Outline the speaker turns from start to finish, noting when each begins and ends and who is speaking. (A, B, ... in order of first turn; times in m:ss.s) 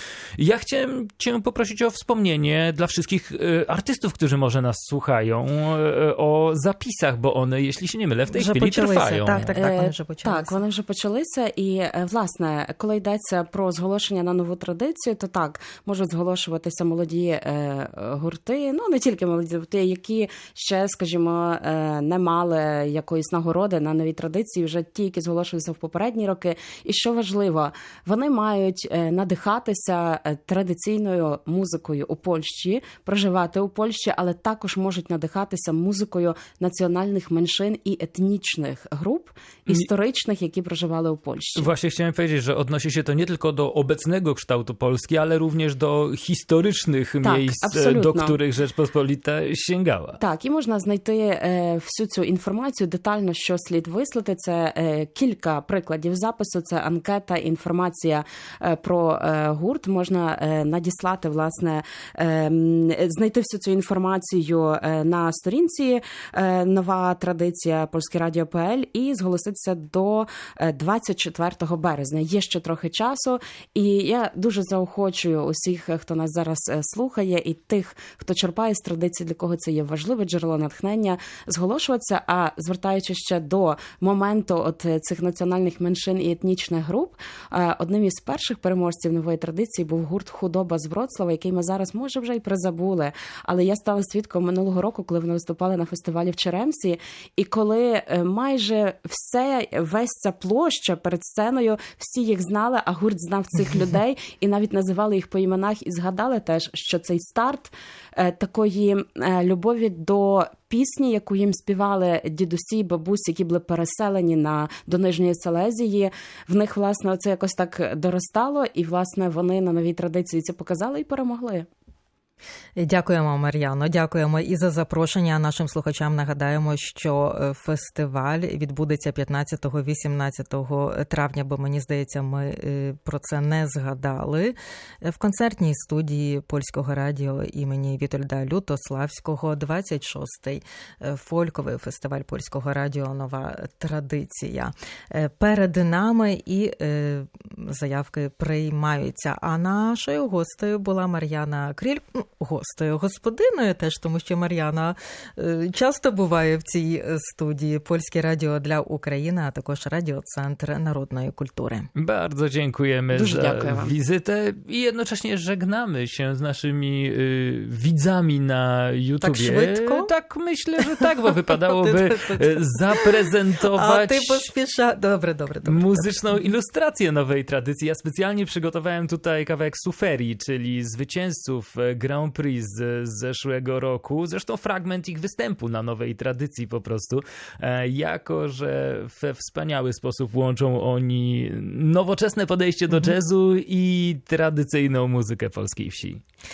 0:00.4-0:09.6 A
0:08.3-0:10.6 B
0:09.5-0:41.7 C
0:41.6-0:50.2 A
0:47.2-0:48.4 C
0:50.2-2:01.7 C
2:02.8-2:41.9 B
2:42.0-2:54.5 A
2:43.1-2:43.9 C
2:49.2-2:50.1 B
2:50.8-2:53.2 B
2:53.7-2:56.2 B
2:55.6-3:16.2 A